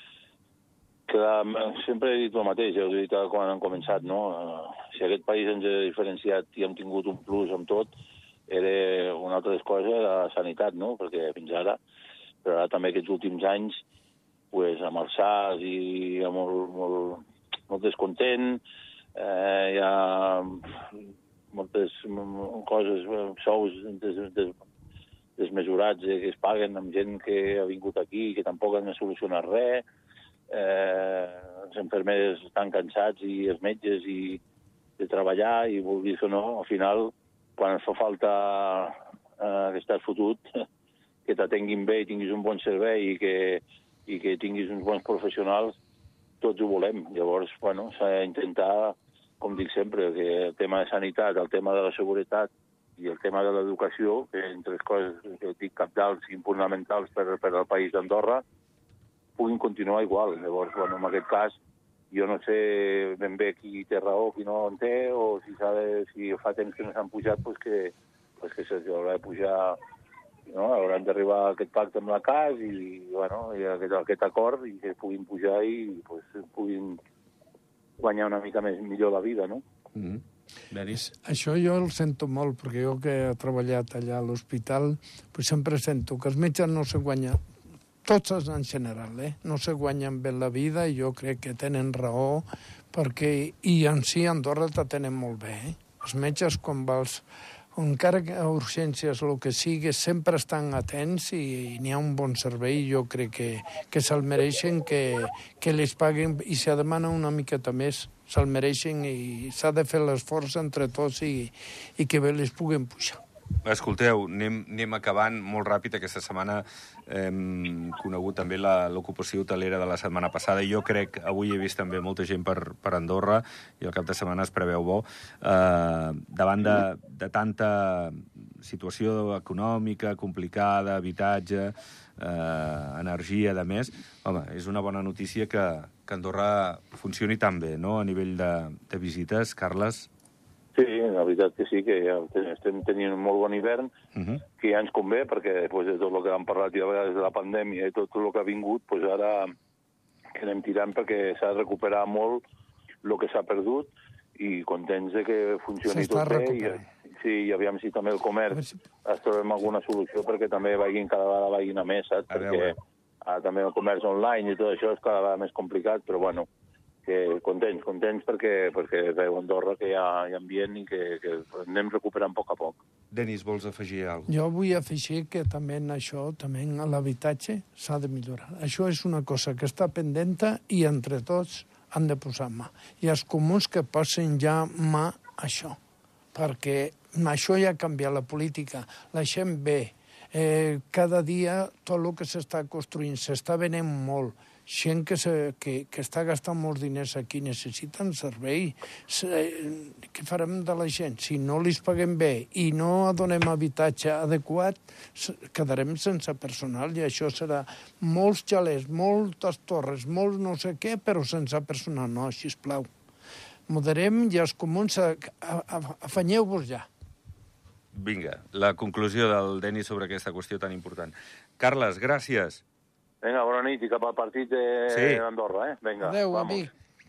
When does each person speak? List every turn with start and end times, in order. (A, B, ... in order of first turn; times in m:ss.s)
0:01.1-0:07.9 A
0:08.5-0:11.8 A
0:12.4-0:13.8 A
0:14.5-0:18.6 A
0:19.2-0:21.0 A
0:21.5-0:24.6 A
0:25.4-0:29.8 A
0:30.5-0:34.4 A
0:35.0-0:40.6 A
0:41.3-0:45.8 A
0:46.4-0:58.4 A
0:59.4-1:01.6 A
1:02.1-1:09.8 A
1:10.5-1:17.0 A
1:18.0-1:19.6 A
1:19.9-1:21.1 B
1:21.0-1:27.4 C
1:28.0-1:37.2 C
1:37.8-1:53.2 C
1:53.6-2:20.1 B
2:20.8-2:23.9 A
2:24.1-2:24.4 B
2:24.6-2:29.5 A
2:30.4-2:32.4 A
2:33.0-2:46.5 A
2:35.9-2:36.9 C
2:38.5-2:38.8 C
2:42.3-2:42.8 B
2:47.1-2:52.8 A
2:53.1-2:54.3 B
2:54.3-3:05.8 C
3:06.3-3:32.9 C
3:33.7-3:36.9 C
3:37.9-3:42.6 B
3:43.2-3:46.7 A
3:44.9-3:45.2 B
3:46.0-3:46.7 C